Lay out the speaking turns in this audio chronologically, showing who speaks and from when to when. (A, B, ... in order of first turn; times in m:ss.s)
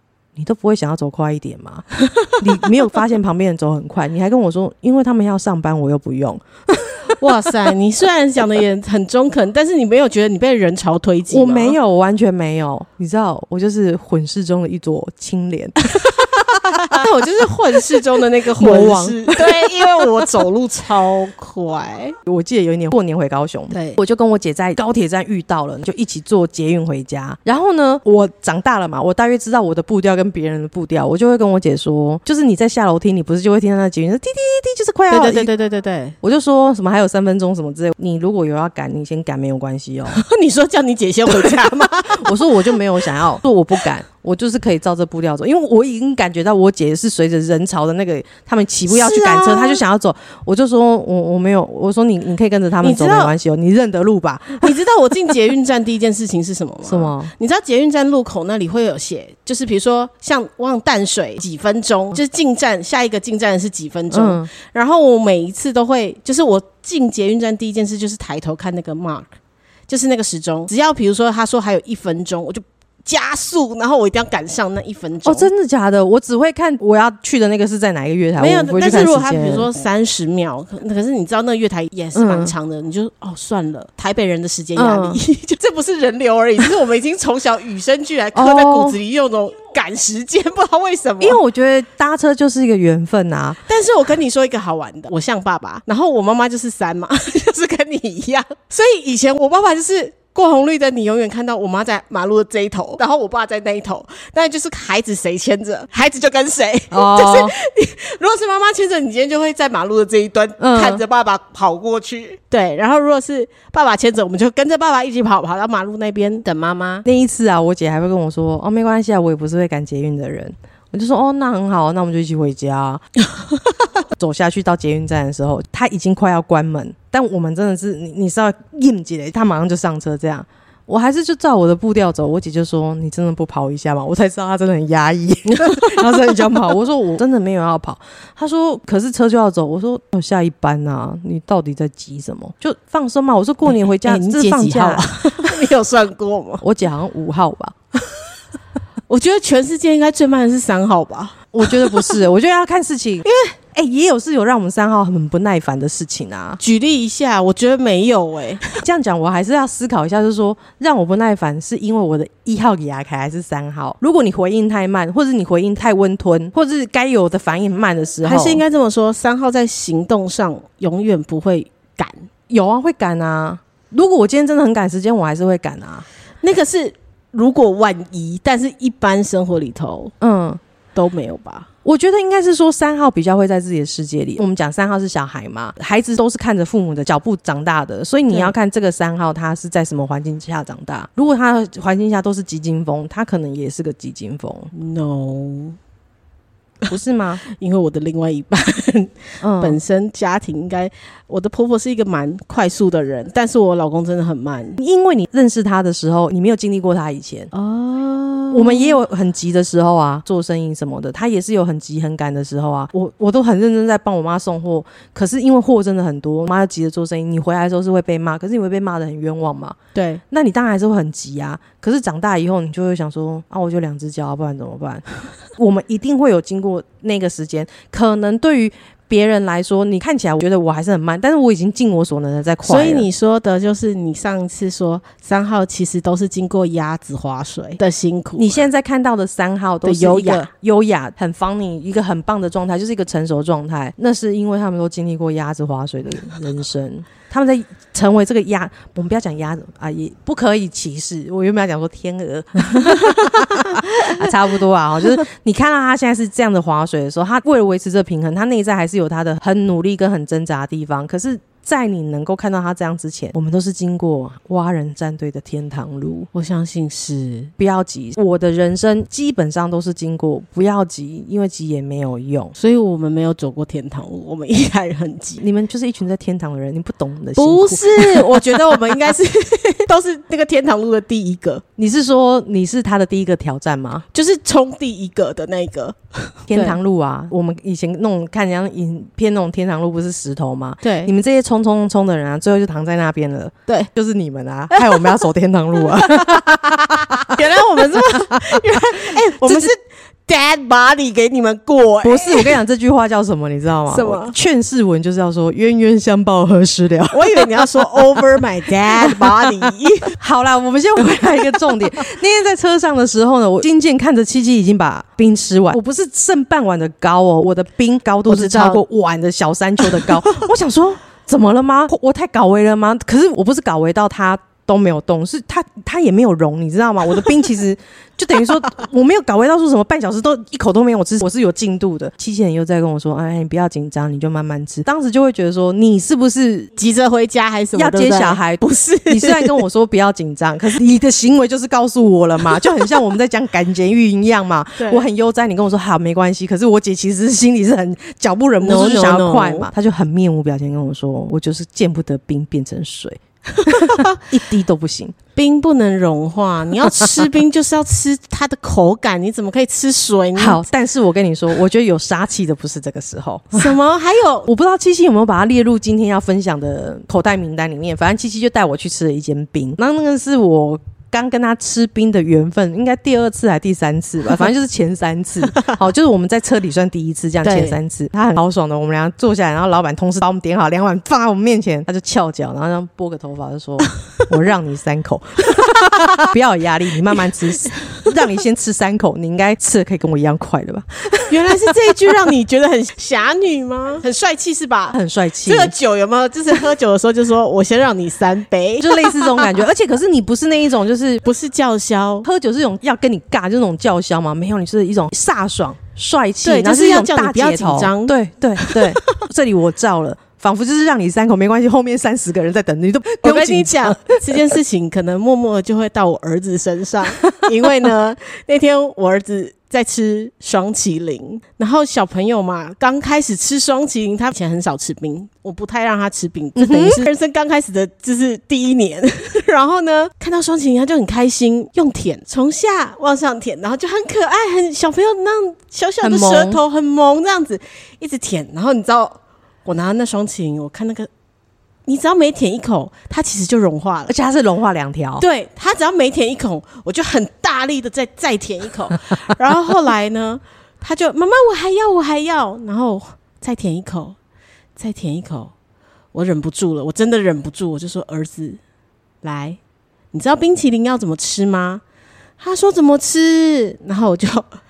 0:00.4-0:07.3 A
0:07.2-0:11.8 B
0:11.3-0:15.8 A
0:15.9-0:22.2 B
0:16.7-0:17.1 A
0:18.5-0:20.2 A
0:22.3-0:35.5 A
0:23.7-0:24.0 B
0:35.1-0:36.2 B
0:36.2-0:40.2 A
0:40.1-0:42.8 B
0:41.3-0:54.8 A
0:48.9-0:49.8 B
0:52.8-0:53.3 B
0:54.6-1:09.3 B
0:56.8-0:57.3 A
1:04.1-1:04.5 A
1:09.9-1:15.5 B
1:15.2-1:19.7 A
1:18.4-1:31.4 B
1:22.2-1:22.5 A
1:24.8-1:25.2 A
1:28.4-1:29.0 A
1:31.2-1:33.6 A
1:33.7-1:57.0 B
1:46.9-1:47.6 A
1:50.6-1:51.0 A
1:57.0-2:03.0 A
2:04.2-2:25.5 A
2:23.7-2:26.6 B
2:26.6-2:27.8 A
2:29.1-2:32.2 B
2:31.5-2:36.6 A
2:36.6-2:38.8 B
2:38.8-2:48.6 A
2:48.2-2:52.3 B
2:52.5-2:56.1 A
2:56.4-3:00.1 B
3:00.2-3:00.6 A
3:01.0-3:01.7 B
3:01.8-3:14.7 A
3:14.7-3:15.8 B
3:16.9-3:17.4 A
3:17.5-3:24.8 B
3:19.4-3:19.8 A
3:24.8-3:27.5 A
3:27.5-3:29.0 B
3:28.5-3:39.8 A
3:40.0-3:40.2 B
3:40.3-3:45.0 A
3:45.6-3:53.1 A
3:52.6-3:58.7 B
3:58.4-4:26.3 A
3:59.8-4:00.5 B
4:12.8-4:14.2 B
4:26.3-4:27.5 B
4:27.6-4:32.6 A
4:32.6-4:35.4 B
4:35.4-4:38.8 A
4:37.4-4:41.6 B
4:41.8-4:44.1 A
4:44.1-4:46.8 B
4:46.5-4:57.4 A
4:50.8-4:51.1 B
4:54.7-4:55.2 B
4:55.9-4:59.8 B
4:58.0-4:59.7 A
5:00.3-5:02.6 B
5:02.0-5:08.0 A
5:03.9-5:04.4 B
5:07.1-5:10.2 B
5:09.0-5:09.5 A
5:10.2-5:36.7 A
5:11.3-5:11.7 B
5:18.3-5:18.8 B
5:36.8-5:39.6 B
5:37.8-5:55.2 A
5:44.8-5:45.0 B
5:48.6-5:49.7 B
5:53.5-5:54.2 B
5:55.4-6:00.6 B
6:00.4-6:03.7 A
6:03.5-6:04.5 B
6:04.5-6:31.9 A
6:17.4-6:17.8 B
6:25.6-6:26.3 B
6:31.3-6:39.5 B
6:34.9-6:35.7 A
6:38.8-6:41.2 A
6:41.2-6:42.3 B
6:42.2-6:54.2 A
6:46.4-6:49.2 B
6:53.2-7:21.1 B
7:06.6-7:07.0 A
7:16.0-7:16.6 A
7:21.9-7:24.1 B
7:24.1-7:25.2 A
7:25.2-7:34.2 B
7:34.8-7:35.5 B
7:36.1-7:38.6 B
7:39.2-7:39.6 B
7:40.1-7:41.8 B
7:42.4-7:44.5 B